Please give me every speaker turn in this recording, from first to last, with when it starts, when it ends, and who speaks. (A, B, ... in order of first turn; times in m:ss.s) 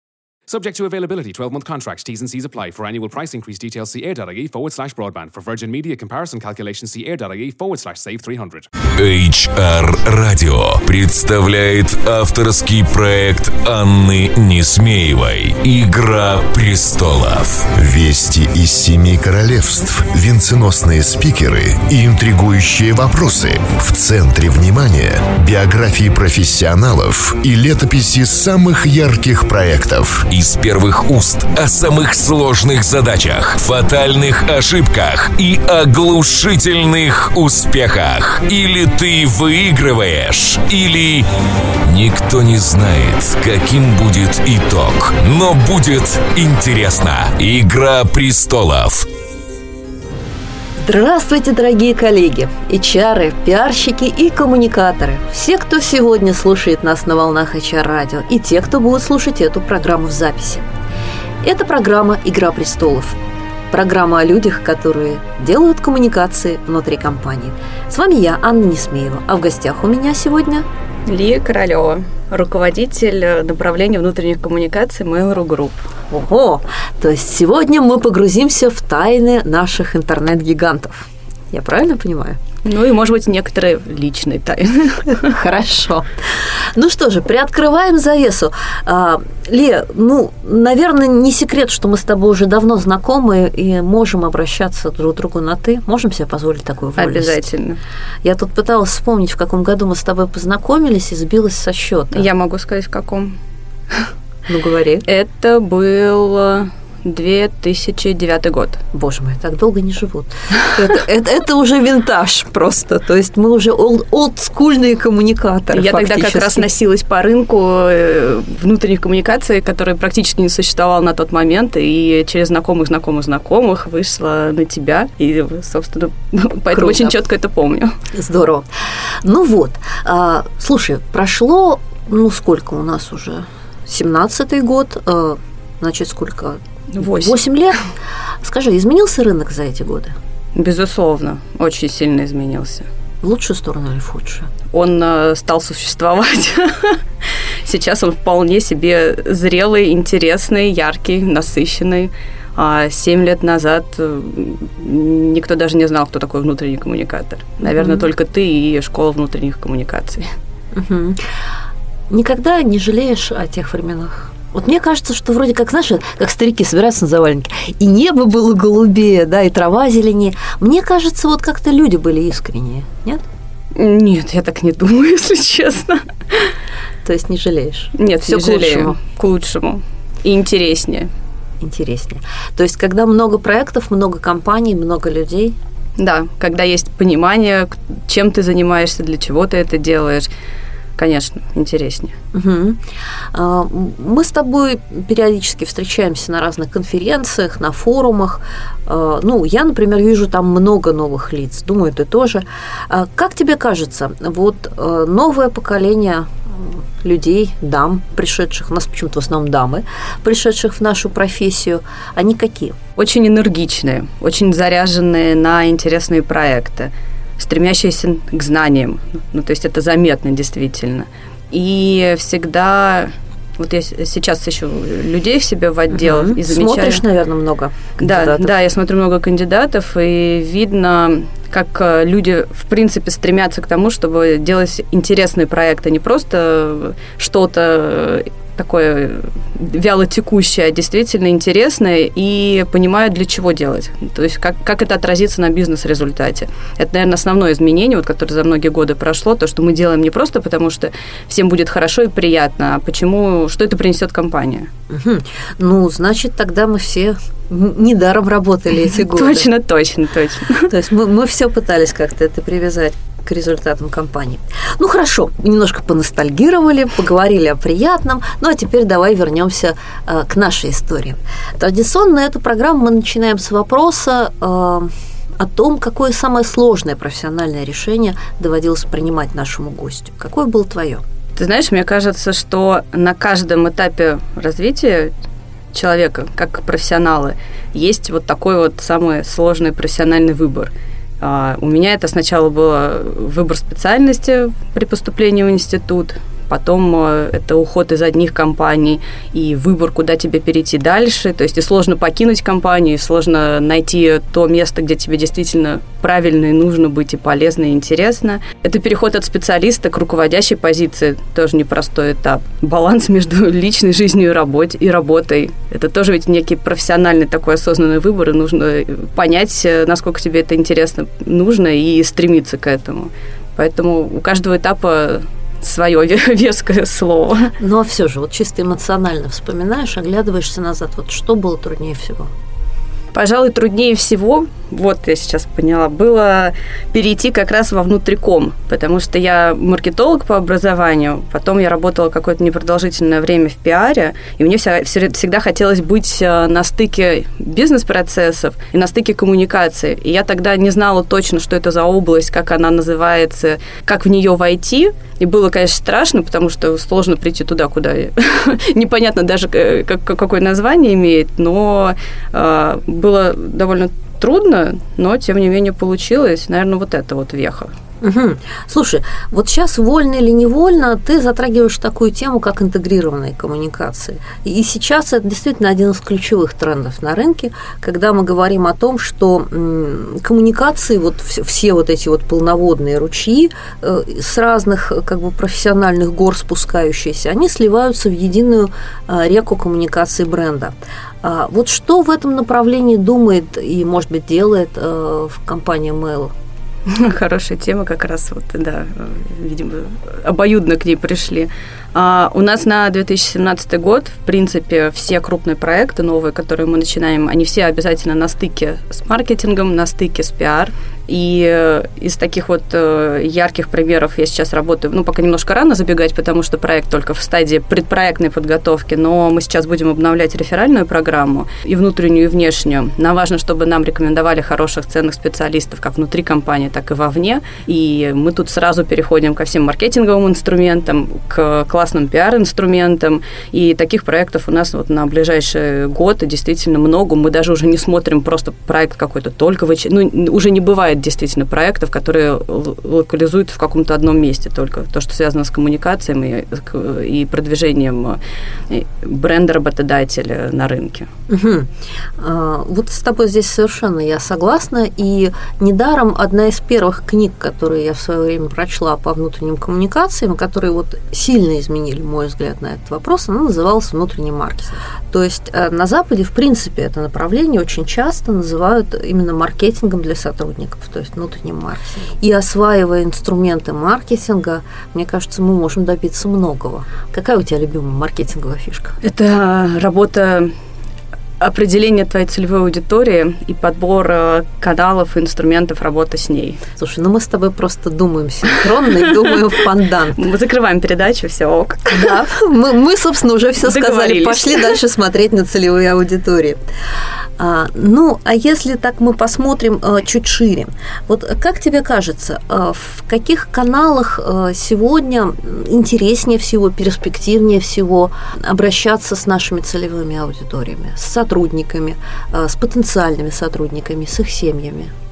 0:00.5-0:08.7 A
0:08.9-0:17.7 B
0:17.8-0:30.2 C
0:30.3-0:41.3 B
0:41.8-0:49.0 B
0:50.8-1:00.6 D
1:01.4-1:03.2 D
1:03.7-1:10.7 D
1:11.0-1:15.8 E
1:16.1-1:22.4 D
1:22.6-1:25.3 E
1:25.2-1:37.5 D
1:37.0-1:37.8 E
1:38.2-1:42.3 D
1:42.1-1:43.4 E
1:44.5-1:45.0 D
1:45.0-1:48.8 E
1:48.9-1:56.7 D
1:55.7-2:08.0 E
2:06.7-2:07.2 D
2:08.1-2:17.8 D
2:16.9-2:17.4 E
2:18.4-2:20.2 D
2:20.5-2:22.9 E
2:23.2-2:24.5 D
2:24.7-2:27.0 E
2:27.6-2:40.3 E
2:37.8-2:38.0 D
2:40.7-2:41.2 D
2:42.1-2:53.2 D
2:53.7-2:56.5 E
2:57.0-2:59.0 D
2:58.0-3:01.1 E
3:01.6-3:05.6 D
3:06.0-3:10.3 E
3:11.0-3:12.1 E
3:12.3-3:12.8 D
3:13.3-3:32.8 D
3:33.0-3:47.0 E
3:45.9-3:48.6 D
3:48.0-4:14.7 E
4:14.9-4:19.5 D
4:19.1-4:20.7 E
4:20.7-4:41.0 D
4:41.4-4:45.1 E
4:45.7-5:27.5 E
5:27.6-5:32.3 D
5:33.1-6:07.7 E
6:08.0-6:36.3 D
6:36.9-7:31.1 E
7:31.3-7:59.0 D
7:59.0-8:00.5 E
8:01.4-8:06.6 E
8:06.8-8:10.2 D
8:10.2-8:12.2 E
8:11.9-8:16.6 D
8:13.6-8:14.8 E
8:17.4-8:34.9 D